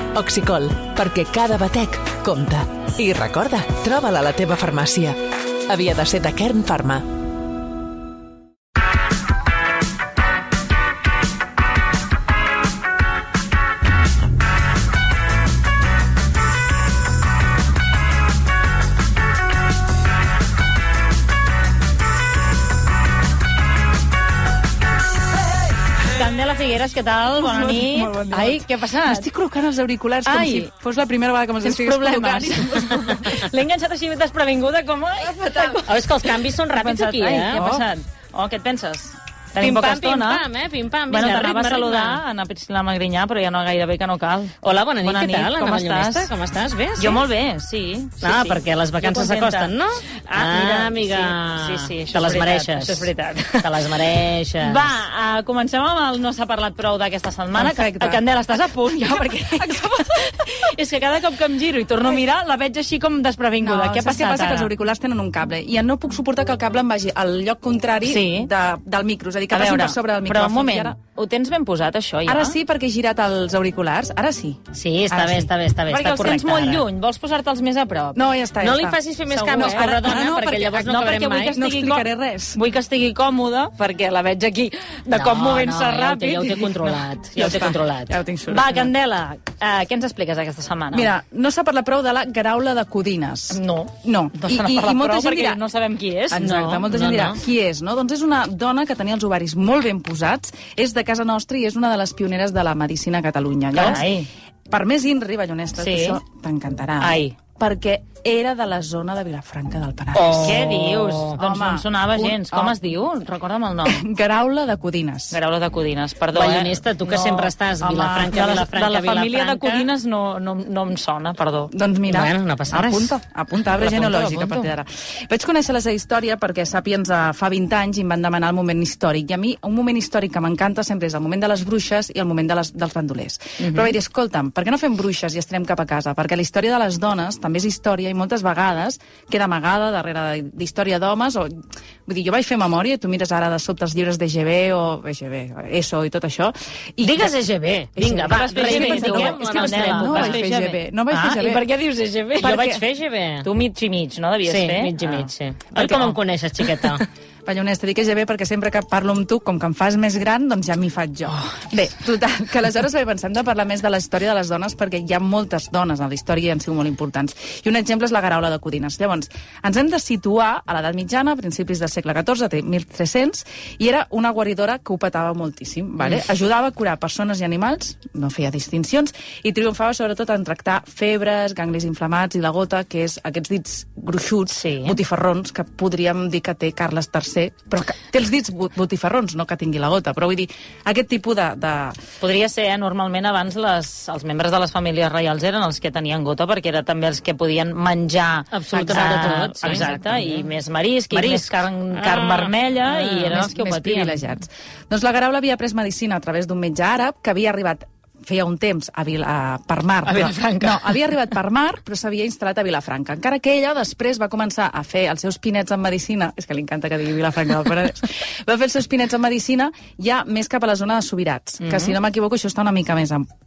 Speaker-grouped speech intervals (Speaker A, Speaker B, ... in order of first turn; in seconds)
Speaker A: 0.1-7.0
Speaker B: 26.0-29.3, 30.2-30.7, 31.6-40.5, 41.1-46.3, 47.0-49.7, 50.3-53.9, 54.6-64.7, 68.0-68.5, 69.5-72.6, 75.9-78.2, 79.3-87.7, 88.5-91.1, 93.5-96.6, 103.7-104.3, 105.8-106.2, 107.0-107.3, 110.3-114.0, 115.3-121.7, 123.7-124.7, 133.6-133.9, 148.0-152.7, 153.4-155.3, 184.5-185.0, 192.2-204.3, 210.0-210.9, 221.6-221.9
Speaker C: 27.4-33.3, 35.3-35.8, 37.5-37.9, 57.5-58.2, 59.1-60.2, 63.6-71.0, 72.2-74.6, 75.1-75.5, 78.1-79.0, 79.5-82.6, 87.3-88.9, 90.9-95.6, 96.3-104.1, 104.7-110.5, 111.4-112.8, 113.8-115.4, 121.7-141.5, 142.1-147.3, 148.5-151.7, 152.3-152.8, 155.7-156.2, 157.4-192.0, 202.9-223.3
Speaker D: 33.1-33.4, 35.8-37.6, 39.6-42.2, 44.6-47.2, 48.2-54.9, 74.7-76.8, 78.6-81.6, 85.1-88.2, 96.4-97.3, 110.1-111.4, 116.3-119.9, 122.1-123.2, 147.0-150.4, 152.4-153.5, 154.4-157.0, 198.5-200.4, 201.1-202.5